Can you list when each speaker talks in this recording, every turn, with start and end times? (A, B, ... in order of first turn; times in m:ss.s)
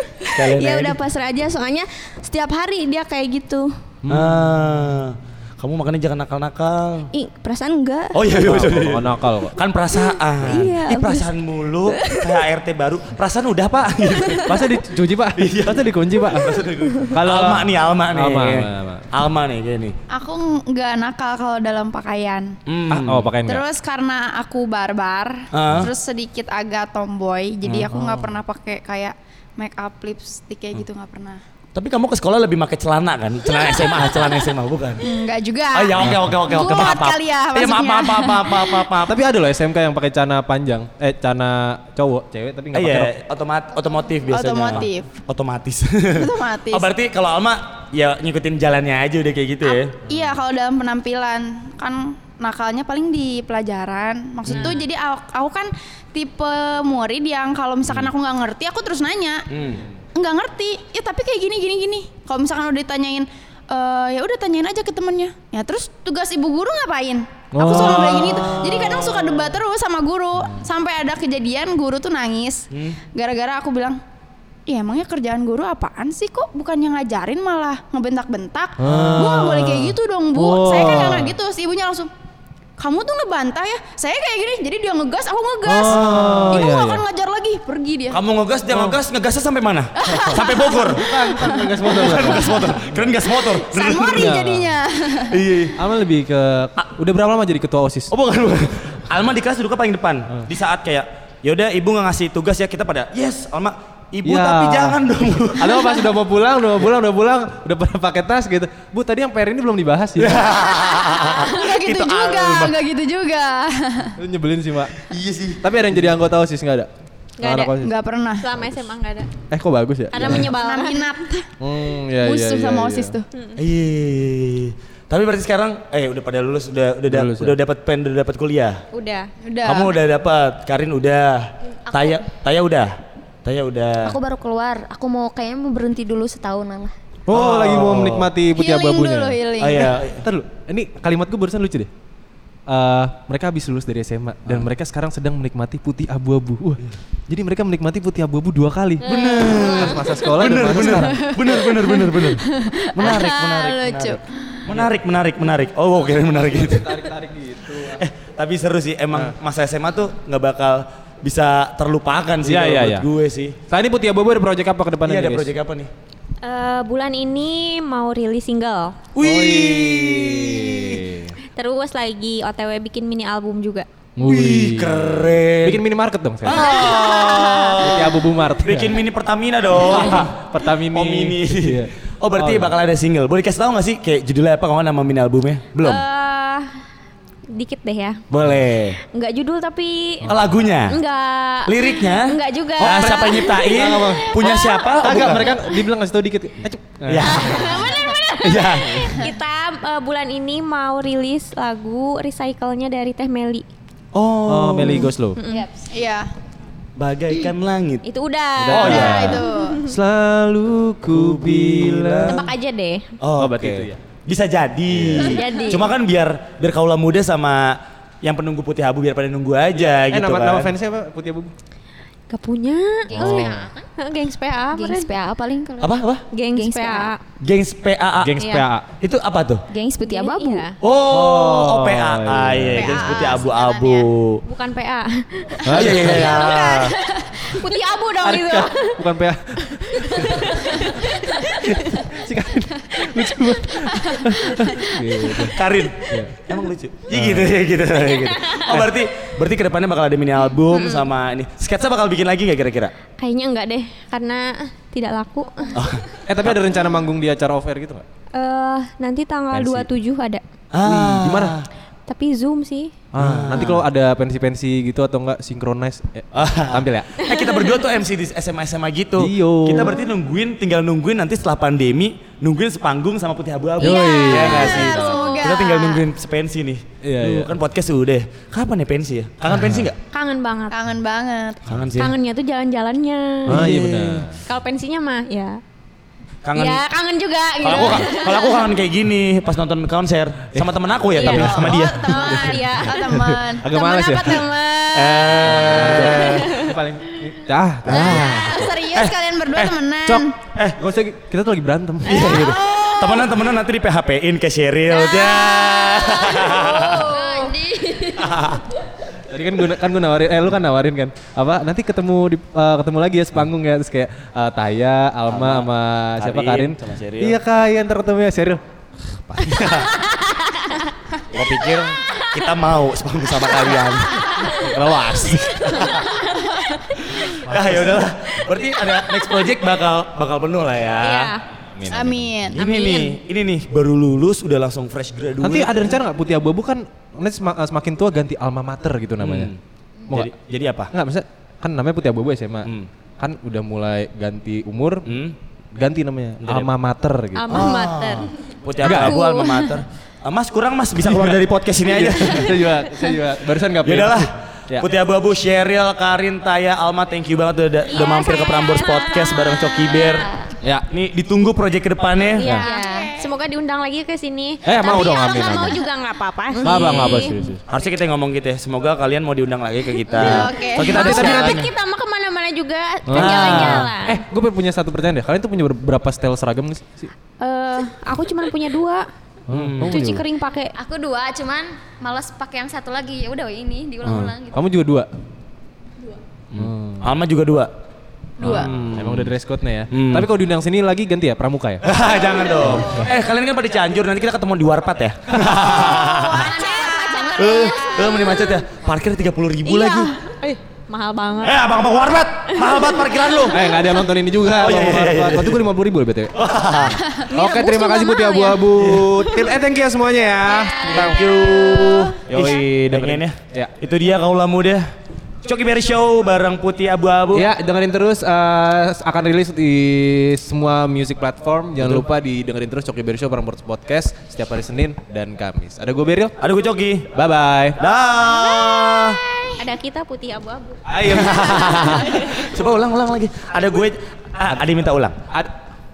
0:00.2-0:01.0 A
0:00.2-0:03.8 B
0:04.0-0:04.4 C
0:04.1-0:07.1 A
0:07.1-0:08.1 B
0:08.1-0:14.6 A
0:08.4-0:09.6 C
0:10.4-0:11.3 B
0:11.9-0:12.3 B
0:14.5-0:19.1 C
0:15.4-0:19.9 A
0:20.1-0:22.5 D
0:22.7-0:23.3 A
0:22.9-0:23.7 C
0:23.4-0:31.4 D
0:25.5-0:25.9 A
0:27.6-0:28.1 A
0:31.8-0:35.0 A
0:35.0-0:38.9 D
0:35.7-0:39.2 A
0:39.0-0:43.1 C
0:42.7-0:50.0 A
0:44.3-0:45.1 D
0:46.2-0:46.9 D
0:49.7-0:59.4 D
0:54.4-0:54.8 A
0:59.5-0:59.8 A
1:00.2-1:14.0 D
1:07.5-1:08.4 C
1:07.6-1:09.1 A
1:12.7-1:13.0 A
1:14.7-1:22.1 D
1:18.8-1:21.3 C
1:22.8-1:28.2 D
1:25.6-1:27.0 C
1:25.9-1:26.6 A
1:28.1-1:31.0 A
1:28.7-1:29.0 C
1:30.0-1:32.6 D
1:30.8-1:33.0 C
1:31.9-1:34.4 A
1:33.2-1:35.4 D
1:34.1-1:34.7 C
1:35.3-1:35.8 A
1:35.8-1:38.1 C
1:38.1-1:46.0 A
1:44.2-1:50.5 C
1:50.2-1:52.7 A
1:51.2-1:54.2 D
1:54.2-1:55.0 C
1:55.1-1:56.1 A
1:55.6-1:58.0 C
1:57.4-1:57.7 E
1:57.8-1:58.5 D
1:58.4-1:59.3 E
1:59.5-2:00.5 C
2:00.1-2:01.2 E
2:00.5-2:01.5 D
2:01.6-2:03.2 C
2:02.2-2:03.2 D
2:03.6-2:08.8 A
2:07.1-2:07.6 C
2:08.9-2:09.3 E
2:09.4-2:10.0 D
2:09.6-2:14.2 A
2:11.8-2:12.2 F
2:14.0-2:16.9 F
2:17.3-2:19.4 C
2:17.3-2:18.3 A
2:18.5-2:20.0 D
2:19.6-2:20.2 A
2:20.2-2:21.9 C
2:22.7-2:31.2 C
2:29.0-2:32.4 A
2:31.0-2:34.2 D
2:33.0-2:36.9 A
2:36.1-2:38.0 C
2:37.9-2:43.6 A
2:42.4-2:43.1 C
2:43.7-2:45.5 C
2:45.0-2:45.9 A
2:46.4-2:49.0 E
2:49.1-2:51.0 A
2:49.2-2:51.4 C
2:51.6-2:53.9 E
2:54.2-2:56.7 C
2:54.2-2:55.8 A
2:56.4-2:58.1 A
2:56.5-2:57.8 E
2:57.8-2:59.0 C
2:58.6-3:00.3 A
2:59.8-3:02.8 C
3:00.9-3:06.0 A
3:05.8-3:06.7 E
3:07.5-3:08.2 E
3:08.3-3:09.0 A
3:09.1-3:10.2 E
3:10.2-3:10.5 C
3:10.3-3:11.0 A
3:10.9-3:14.8 E
3:11.6-3:15.5 A
3:12.8-3:17.7 C
3:17.0-3:17.6 A
3:17.2-3:23.6 E
3:18.4-3:19.0 A
3:24.1-3:25.1 A
3:24.4-3:25.4 C
3:25.4-3:25.7 E
3:25.5-3:25.9 F
3:25.9-3:26.3 D
3:27.0-3:28.0 A
3:28.0-3:29.9 E
3:28.6-3:32.4 C
3:28.7-3:29.4 A
3:28.8-3:29.8 D
3:31.1-3:32.4 A
3:32.3-3:33.1 E
3:33.2-3:40.7 A
3:33.3-3:34.0 C
3:34.9-3:35.2 C
3:35.2-3:35.9 E
3:35.4-3:35.7 F
3:39.9-3:41.5 C
3:42.3-3:45.1 E
3:43.1-3:43.9 F
3:43.2-3:43.4 A
3:43.2-3:43.6 C
3:44.7-3:46.0 F
3:45.8-3:46.2 A
3:46.3-3:47.2 E
3:46.5-3:47.1 F
3:47.4-3:48.3 A
3:48.2-3:48.9 C
3:48.4-3:48.7 E
3:49.0-3:49.6 A
3:49.7-3:50.7 F
3:50.0-3:50.8 E
3:50.8-3:54.4 A
3:51.1-3:53.0 C
3:52.7-3:54.1 D
3:54.4-3:59.0 E
3:55.6-3:56.4 C
3:55.7-3:56.9 A
3:56.4-3:57.4 D
3:58.2-4:05.6 C
3:59.9-4:02.0 E
4:03.8-4:04.2 D
4:05.5-4:12.9 A
4:07.1-4:07.6 C
4:07.9-4:08.9 E
4:10.7-4:11.1 E
4:13.2-4:15.8 E
4:15.7-4:16.6 A
4:16.2-4:18.0 C
4:18.3-4:20.4 E
4:19.5-4:19.9 C
4:20.7-4:21.7 A
4:20.8-4:21.6 C
4:22.1-4:22.9 E
4:23.1-4:27.2 C
4:23.2-4:23.8 A
4:26.3-4:40.0 A
4:29.2-4:30.0 C
4:33.8-4:35.6 E
4:33.8-4:35.0 C
4:34.5-4:35.8 D
4:37.0-4:37.6 C
4:39.5-4:39.8 C
4:40.1-4:40.8 E
4:40.7-4:41.6 D
4:41.7-4:42.1 A
4:41.9-4:43.6 E
4:43.5-4:44.2 A
4:43.5-4:44.4 C
4:44.5-4:45.6 E
4:46.4-4:46.8 A
4:46.5-4:48.6 E
4:47.6-4:52.1 A
4:50.5-4:54.5 C
4:51.2-4:51.5 E
4:51.2-4:53.7 D
4:52.1-4:53.0 E
4:53.7-4:56.7 E
4:54.9-4:56.4 A
4:55.4-4:58.7 C
4:57.8-4:58.3 A
4:57.9-5:00.3 D
4:58.9-4:59.8 A
5:00.8-5:02.6 C
5:02.0-5:07.1 A
5:02.7-5:03.2 D
5:05.1-5:05.4 D
5:06.7-5:08.4 F
5:06.8-5:07.4 D
5:07.1-5:07.5 E
5:08.2-5:08.6 A
5:09.3-5:19.7 C
5:15.3-5:17.4 A
5:19.4-5:20.0 A
5:20.1-5:20.8 E
5:21.3-5:26.0 A
5:24.6-5:25.7 C
5:25.8-5:27.0 E
5:27.2-5:31.4 A
5:27.5-5:27.9 C
5:31.0-5:31.4 E
5:31.8-5:32.5 C
5:31.9-5:32.6 D
5:32.6-5:36.0 A
5:32.6-5:33.1 E
5:35.4-5:39.5 C
5:39.2-5:40.9 A
5:40.9-5:45.1 C
5:45.0-5:45.4 A
5:45.7-5:47.7 C
5:46.4-5:46.7 A
5:47.3-5:48.3 E
5:47.5-5:52.6 A
5:48.8-5:49.2 C
5:48.9-5:49.8 E
5:51.0-5:54.9 C
5:53.8-6:00.3 A
5:57.9-6:00.1 E
6:00.1-6:00.5 F
6:00.9-6:02.4 A
6:02.4-6:07.4 E
6:02.4-6:02.6 C
6:02.6-6:03.3 D
6:02.6-6:03.0 F
6:04.6-6:05.8 C
6:06.6-6:07.6 C
6:06.6-6:11.7 A
6:10.1-6:14.2 E
6:10.1-6:11.2 D
6:10.9-6:11.6 C
6:13.1-6:17.1 C
6:13.1-6:13.9 A
6:17.4-6:19.1 E
6:19.5-6:20.2 C
6:19.5-6:19.9 A
6:19.9-6:20.7 E
6:20.7-6:24.6 F
6:24.0-6:25.1 C
6:26.5-6:27.7 A
6:26.5-6:27.1 C
6:28.4-6:31.9 C
6:28.4-6:29.3 A
6:29.9-6:30.3 A
6:31.8-6:36.5 A
6:32.6-6:33.0 C
6:35.3-6:35.8 C
6:36.2-6:38.1 F
6:36.3-6:38.3 D
6:36.5-6:38.2 E
6:37.4-6:40.1 A
6:39.6-6:41.6 E
6:41.4-6:43.6 A
6:42.5-6:43.0 E
6:43.5-6:46.3 C
6:44.5-6:45.6 A
6:46.3-6:47.0 A
6:47.3-6:48.6 E
6:47.3-6:51.4 C
6:48.7-6:49.3 A
6:50.7-6:52.0 E
6:50.8-6:54.9 A
6:52.2-6:53.7 C
6:55.4-6:57.5 A
6:57.3-7:06.3 C
7:06.4-7:07.1 A
7:07.1-7:07.8 C
7:07.8-7:09.2 A
7:08.2-7:09.0 E
7:09.6-7:12.4 E
7:10.9-7:12.4 C
7:11.0-7:15.2 A